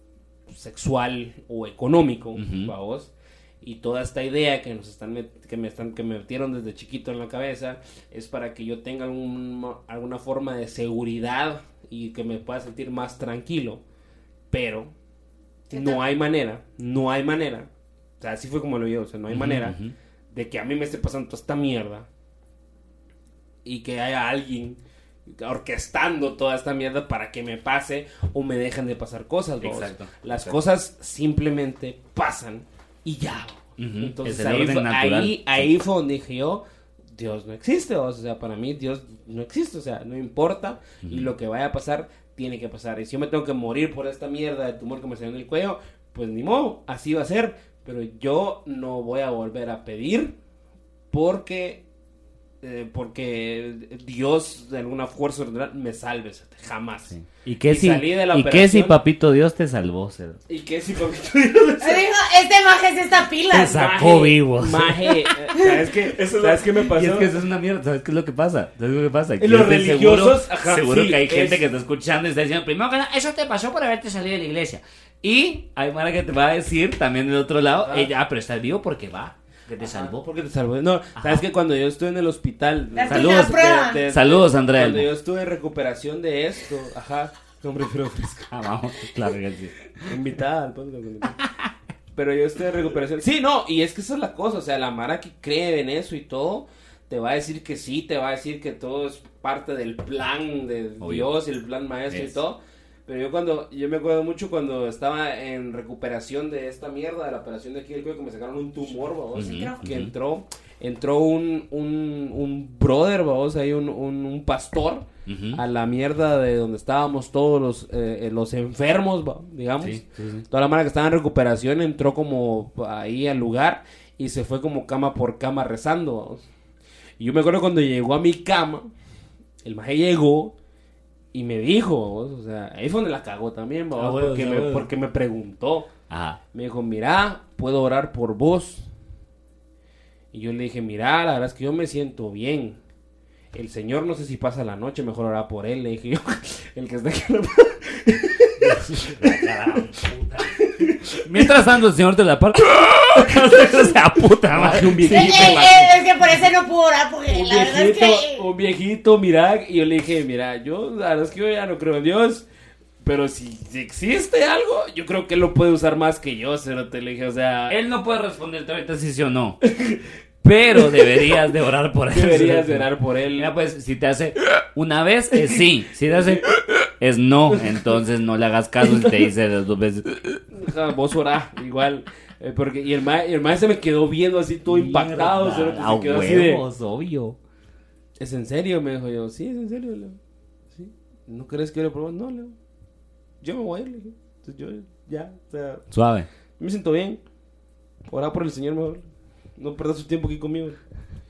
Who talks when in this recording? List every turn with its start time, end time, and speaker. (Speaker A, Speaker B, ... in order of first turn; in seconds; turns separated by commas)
Speaker A: 0.5-13.8, Speaker B: 2.4-2.7, Speaker A: 14.5-14.9, Speaker A: 15.7-17.7, Speaker C: 15.7-16.0, Speaker A: 18.2-19.8, Speaker B: 19.3-19.9, Speaker A: 20.3-22.1, Speaker A: 23.6-36.6, Speaker B: 29.6-30.6, Speaker B: 33.8-35.7, Speaker A: 37.1-50.3, Speaker B: 41.0-41.3, Speaker A: 51.1-51.8, Speaker A: 52.6-57.1, Speaker B: 57.1-60.4, Speaker A: 57.7-59.0, Speaker A: 60.5-62.0, Speaker C: 61.8-63.8, Speaker B: 63.5-65.4, Speaker A: 63.6-67.4, Speaker B: 66.2-80.3, Speaker A: 69.4-71.7, Speaker A: 77.8-78.1, Speaker A: 79.8-88.5, Speaker B: 81.2-81.4, Speaker C: 82.9-84.0, Speaker B: 83.0-85.1, Speaker B: 88.5-90.2, Speaker A: 90.0-91.4, Speaker B: 91.4-91.7, Speaker A: 92.1-126.5, Speaker B: 101.0-101.3, Speaker B: 102.1-102.4, Speaker B: 109.3-110.1, Speaker C: 109.4-109.8, Speaker B: 115.3-115.6, Speaker B: 119.8-120.5, Speaker A: 127.2-128.9, Speaker A: 129.6-130.5, Speaker A: 131.3-135.9, Speaker B: 133.9-134.9, Speaker B: 136.1-136.4, Speaker A: 136.5-138.9, Speaker A: 140.3-142.8, Speaker A: 143.5-149.8, Speaker B: 148.6-150.6, Speaker A: 150.5-151.7, Speaker B: 151.2-155.9, Speaker A: 153.3-153.7, Speaker A: 154.5-156.3, Speaker C: 155.1-158.4, Speaker A: 157.3-162.4, Speaker A: 163.0-167.8, Speaker B: 167.7-169.6, Speaker A: 169.6-170.0, Speaker B: 170.4-176.5, Speaker A: 170.7-171.3, Speaker A: 172.1-173.5, Speaker A: 176.1-176.4, Speaker B: 177.0-180.1, Speaker A: 180.5-186.6, Speaker B: 184.7-187.4, Speaker A: 188.2-190.2, Speaker A: 190.7-192.5, Speaker A: 193.4-195.8, Speaker B: 195.9-196.3, Speaker A: 196.6-197.2, Speaker A: 198.1-199.1, Speaker A: 199.6-200.8